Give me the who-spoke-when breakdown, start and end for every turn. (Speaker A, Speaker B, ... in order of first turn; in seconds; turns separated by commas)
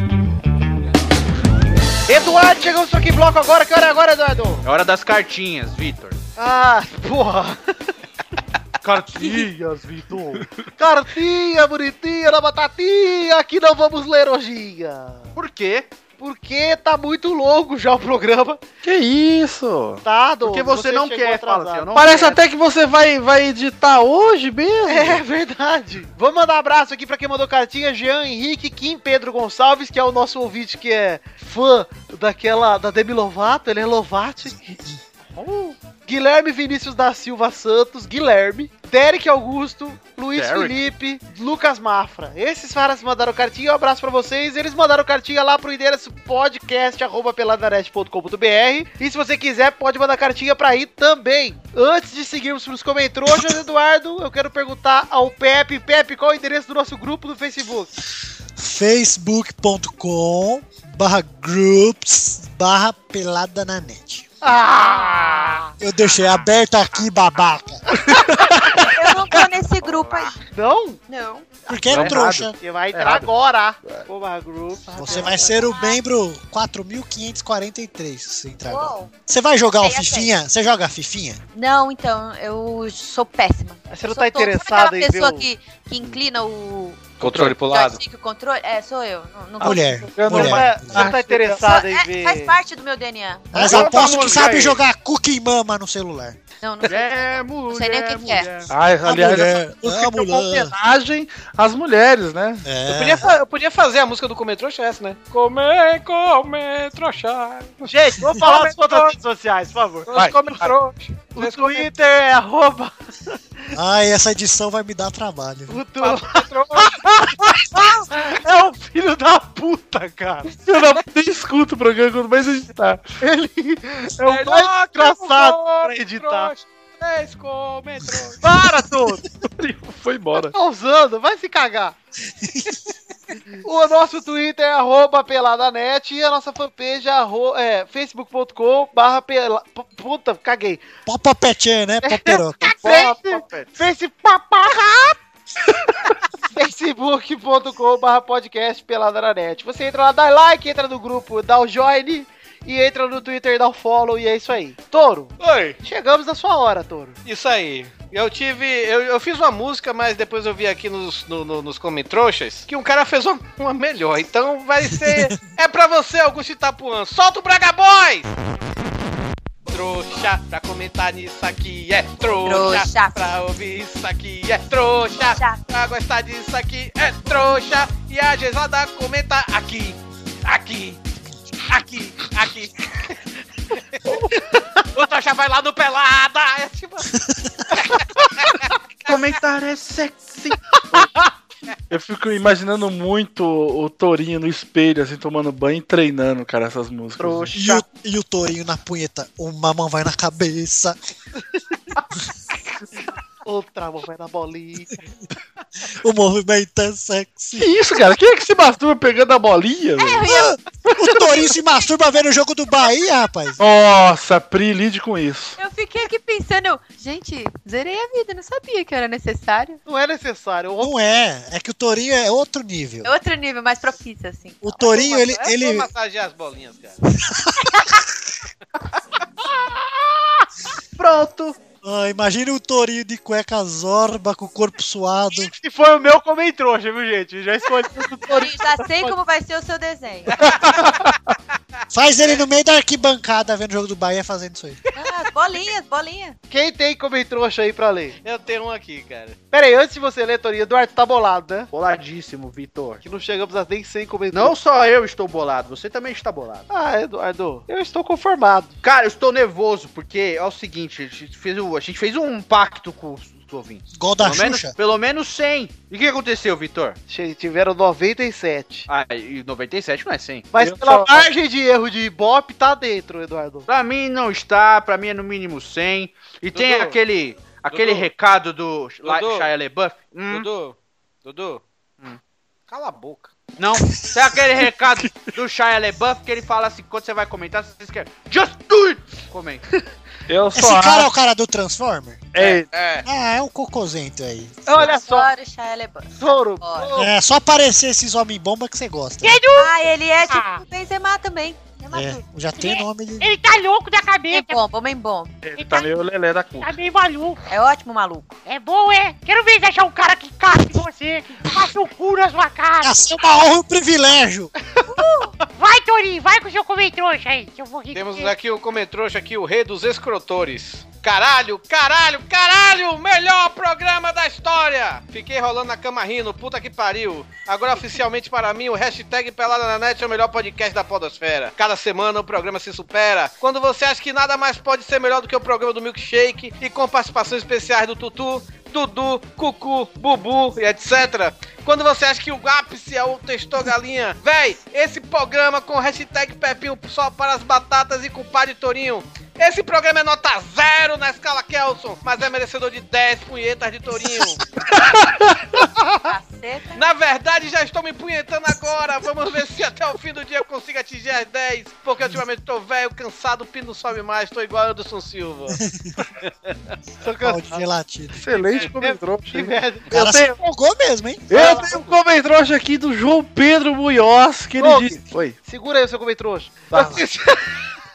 Speaker A: 2.1-4.6, Speaker B: 4.6-6.2, Speaker A: 6.4-7.6, Speaker B: 8.8-9.4, Speaker A: 9.1-15.3, Speaker B: 15.4-15.9, Speaker A: 16.2-18.6, Speaker C: 18.8-20.0, Speaker A: 20.0-21.9, Speaker B: 20.4-22.4, Speaker C: 21.9-25.2, Speaker A: 24.9-34.7, Speaker A: 35.3-57.9, Speaker D: 53.3-53.6, Speaker D: 58.6-64.3, Speaker A: 64.4-65.6, Speaker E: 65.0-65.7, Speaker D: 65.8-67.8, Speaker C: 68.1-68.8, Speaker F: 68.8-70.4, Speaker A: 70.5-71.0, Speaker F: 71.1-71.5, Speaker D: 71.7-72.6, Speaker A: 71.7-75.7, Speaker B: 71.9-72.4, Speaker B: 72.9-73.3, Speaker D: 75.0-81.4, Speaker F: 75.1-76.0, Speaker F: 78.7-79.1, Speaker F: 79.8-80.3, Speaker F: 81.5-90.0, Speaker A: 83.9-85.5, Speaker G: 87.2-88.0, Speaker D: 89.6-91.1, Speaker C: 89.6-91.7, Speaker A: 90.3-92.6, Speaker F: 91.6-93.8, Speaker D: 93.5-96.4, Speaker B: 93.7-94.8, Speaker F: 96.6-98.5, Speaker B: 96.9-98.7, Speaker C: 98.7-102.8, Speaker D: 99.0-100.7, Speaker D: 102.7-103.3, Speaker G: 102.8-109.2, Speaker A: 107.9-110.1, Speaker G: 110.1-111.9, Speaker C: 110.1-110.7, Speaker A: 111.3-112.9, Speaker D: 113.7-115.8, Speaker A: 115.7-116.9, Speaker G: 116.0-117.0, Speaker A: 118.1-120.5, Speaker C: 120.5-123.0, Speaker A: 123.2-126.5, Speaker G: 124.2-128.4, Speaker A: 128.4-129.3, Speaker C: 129.6-130.6, Speaker A: 130.5-132.0, Speaker D: 132.4-132.8, Speaker A: 133.6-140.8, Speaker D: 141.1-142.7, Speaker A: 142.0-145.2, Speaker B: 142.6-143.7, Speaker A: 146.5-157.2, Speaker G: 155.4-155.8, Speaker G: 157.2-168.3, Speaker G: 169.7-181.0, Speaker F: 172.3-173.2, Speaker F: 175.2-175.6, Speaker G: 181.7-183.1, Speaker A: 184.3-184.8, Speaker G: 184.9-187.1, Speaker G: 188.6-189.1, Speaker B: 189.1-191.1, Speaker C: 191.9-197.6, Speaker B: 197.2-197.8, Speaker D: 197.6-201.0, Speaker A: 203.4-205.0, Speaker D: 206.0-207.7, Speaker C: 207.6-210.3, Speaker F: 210.0-212.2, Speaker D: 210.3-213.6, Speaker C: 213.6-215.6, Speaker F: 215.6-219.8, Speaker A: 219.9-220.9, Speaker D: 220.8-223.1, Speaker F: 223.0-225.5, Speaker D: 224.6-225.9, Speaker G: 225.2-227.1, Speaker D: 227.2-227.9, Speaker B: 231.0-231.6, Speaker D: 231.8-235.5, Speaker A: 235.3-239.1, Speaker F: 238.3-240.3, Speaker G: 240.3-241.2, Speaker D: 241.9-244.8, Speaker F: 244.9-246.4, Speaker A: 246.5-248.2, Speaker G: 248.2-249.4, Speaker A: 249.5-251.7, Speaker B: 251.7-253.0, Speaker A: 253.0-254.5, Speaker B: 254.3-256.7, Speaker A: 256.7-258.8, Speaker B: 258.8-267.0, Speaker D: 263.9-264.8, Speaker A: 267.1-268.9, Speaker B: 268.9-270.5, Speaker A: 270.5-273.7, Speaker C: 270.6-271.3, Speaker B: 273.7-280.5, Speaker G: 276.5-277.0, Speaker G: 277.7-278.1, Speaker G: 279.0-279.5, Speaker G: 280.3-281.6, Speaker G: 282.7-283.6, Speaker B: 283.6-289.6, Speaker C: 290.3-291.1, Speaker D: 290.6-292.3, Speaker C: 292.3-292.7, Speaker G: 292.4-293.1, Speaker D: 293.1-294.9, Speaker A: 294.7-295.3, Speaker F: 294.9-296.9, Speaker A: 296.2-297.1, Speaker D: 296.9-299.4, Speaker E: 299.2-299.8, Speaker F: 299.5-302.7, Speaker E: 300.3-300.6, Speaker D: 301.9-303.3, Speaker E: 303.2-304.6, Speaker F: 304.3-305.4, Speaker C: 305.4-306.8, Speaker E: 305.6-305.9, Speaker E: 306.6-307.4, Speaker F: 307.5-308.4, Speaker E: 308.5-312.9, Speaker D: 312.8-314.5, Speaker F: 314.9-315.3, Speaker E: 315.6-318.4, Speaker G: 317.9-354.4, Speaker C: 354.7-355.6, Speaker F: 356.1-356.8, Speaker G: 356.8-365.6, Speaker D: 365.5-365.9, Speaker G: 366.2-366.5, Speaker A: 367.0-367.6, Speaker D: 367.2-368.7, Speaker C: 368.2-370.4, Speaker A: 368.6-369.9, Speaker D: 369.9-371.6, Speaker C: 371.3-375.4, Speaker A: 371.3-372.0, Speaker A: 374.6-377.6, Speaker C: 376.7-377.0, Speaker D: 376.8-377.0